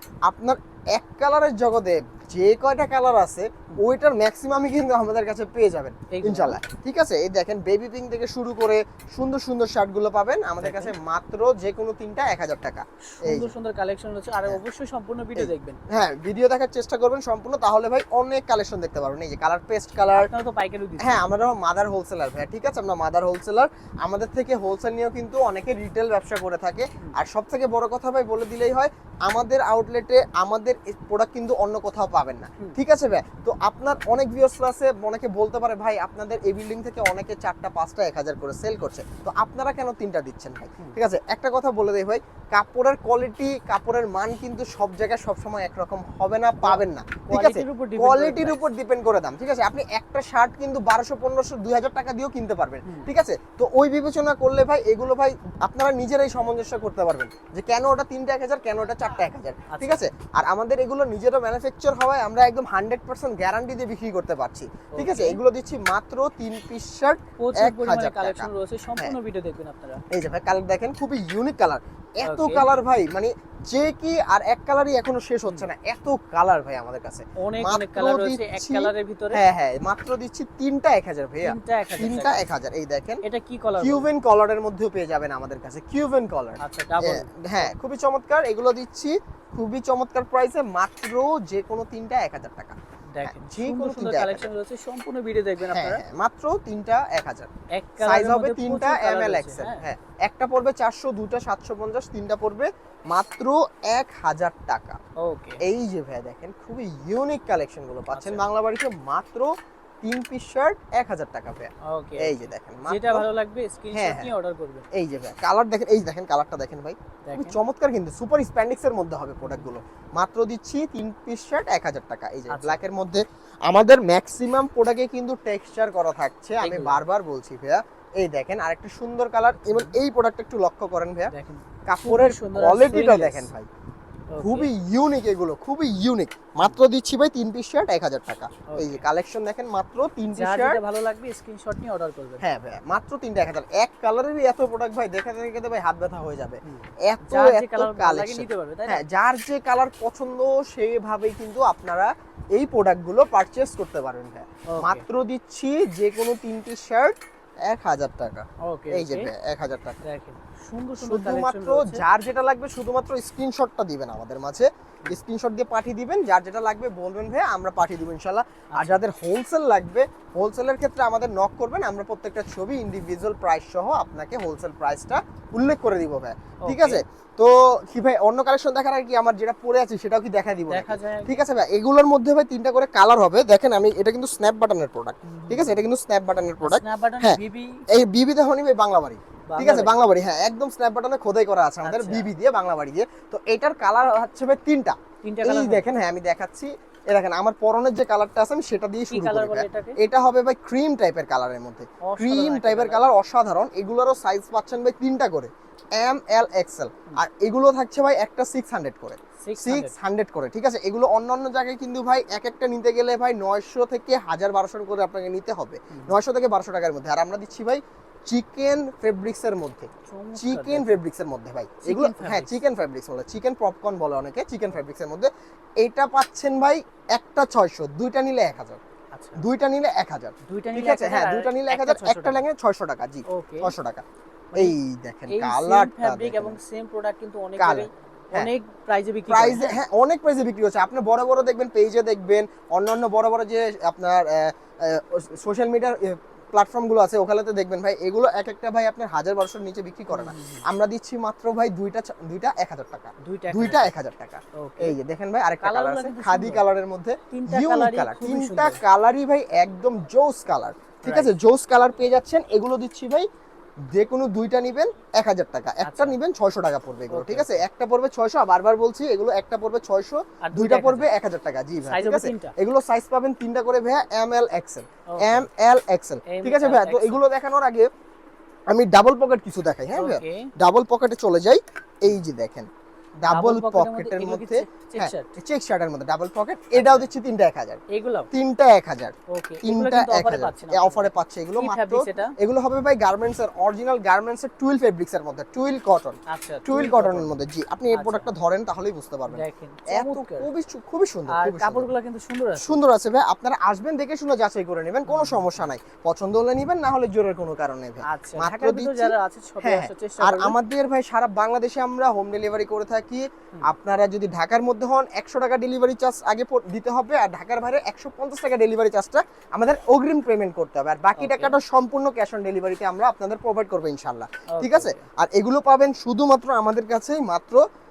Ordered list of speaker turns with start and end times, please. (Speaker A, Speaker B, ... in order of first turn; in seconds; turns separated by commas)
Speaker A: 0.3-13.5, Speaker B: 6.1-6.6, Speaker B: 10.6-10.9, Speaker B: 13.1-15.8, Speaker A: 15.4-20.3, Speaker B: 20.1-21.2, Speaker A: 21.0-69.1, Speaker B: 46.6-48.6, Speaker B: 59.7-60.0, Speaker B: 64.9-65.4, Speaker B: 67.4-70.0, Speaker A: 70.1-83.2, Speaker B: 72.2-72.7, Speaker B: 77.3-79.4, Speaker B: 81.4-82.5, Speaker B: 83.2-84.1, Speaker A: 83.8-94.5, Speaker B: 86.6-87.7, Speaker B: 93.1-96.0, Speaker A: 95.6-105.0, Speaker B: 97.7-99.8, Speaker B: 105.2-105.6, Speaker A: 105.6-109.5, Speaker B: 108.1-108.4, Speaker A: 110.0-113.2, Speaker B: 111.8-114.9, Speaker A: 113.9-114.3, Speaker A: 114.9-131.3, Speaker B: 117.2-117.6, Speaker B: 122.5-122.8, Speaker B: 126.6-127.0, Speaker B: 129.7-129.9, Speaker B: 131.3-133.5, Speaker A: 131.8-133.7, Speaker B: 134.3-134.7, Speaker A: 134.4-140.8, Speaker B: 138.7-139.0, Speaker B: 140.3-142.4, Speaker A: 142.4-160.0, Speaker B: 146.6-149.0, Speaker B: 154.7-155.0, Speaker B: 158.6-159.3, Speaker B: 160.0-162.0, Speaker A: 161.0-187.4, Speaker B: 168.7-169.0, Speaker B: 176.6-177.0, Speaker B: 180.7-181.4, Speaker B: 185.2-185.8, Speaker B: 186.6-187.8, Speaker A: 187.9-225.3, Speaker B: 189.5-190.0, Speaker B: 191.8-192.3, Speaker B: 195.2-195.9, Speaker B: 199.1-200.0, Speaker B: 202.0-203.0, Speaker B: 209.4-209.9, Speaker B: 215.9-216.2, Speaker B: 220.1-221.0, Speaker B: 221.8-222.6, Speaker A: 225.8-228.8, Speaker B: 229.1-229.4, Speaker A: 229.4-234.0, Speaker B: 230.4-232.4, Speaker B: 233.3-233.7, Speaker B: 234.5-239.8, Speaker A: 234.6-236.6, Speaker A: 237.6-238.5, Speaker A: 239.3-263.3, Speaker B: 250.1-250.6, Speaker B: 253.2-253.9, Speaker B: 254.6-254.9, Speaker B: 255.6-256.6, Speaker B: 257.3-258.8, Speaker B: 261.0-261.3, Speaker A: 263.9-277.9, Speaker B: 265.8-266.2, Speaker B: 267.1-267.6, Speaker B: 270.4-271.1, Speaker B: 271.8-272.5, Speaker B: 275.1-275.5, Speaker B: 276.3-277.2, Speaker A: 278.7-282.7, Speaker B: 279.9-280.5, Speaker A: 283.2-301.9, Speaker B: 283.3-285.3, Speaker B: 286.7-287.1, Speaker B: 287.9-288.3, Speaker B: 289.3-292.4, Speaker B: 296.3-297.3, Speaker B: 297.9-298.3, Speaker B: 299.3-300.5, Speaker B: 301.3-302.8, Speaker A: 302.6-327.6, Speaker B: 305.1-305.7, Speaker B: 308.0-310.6, Speaker B: 321.2-321.6, Speaker B: 324.5-325.0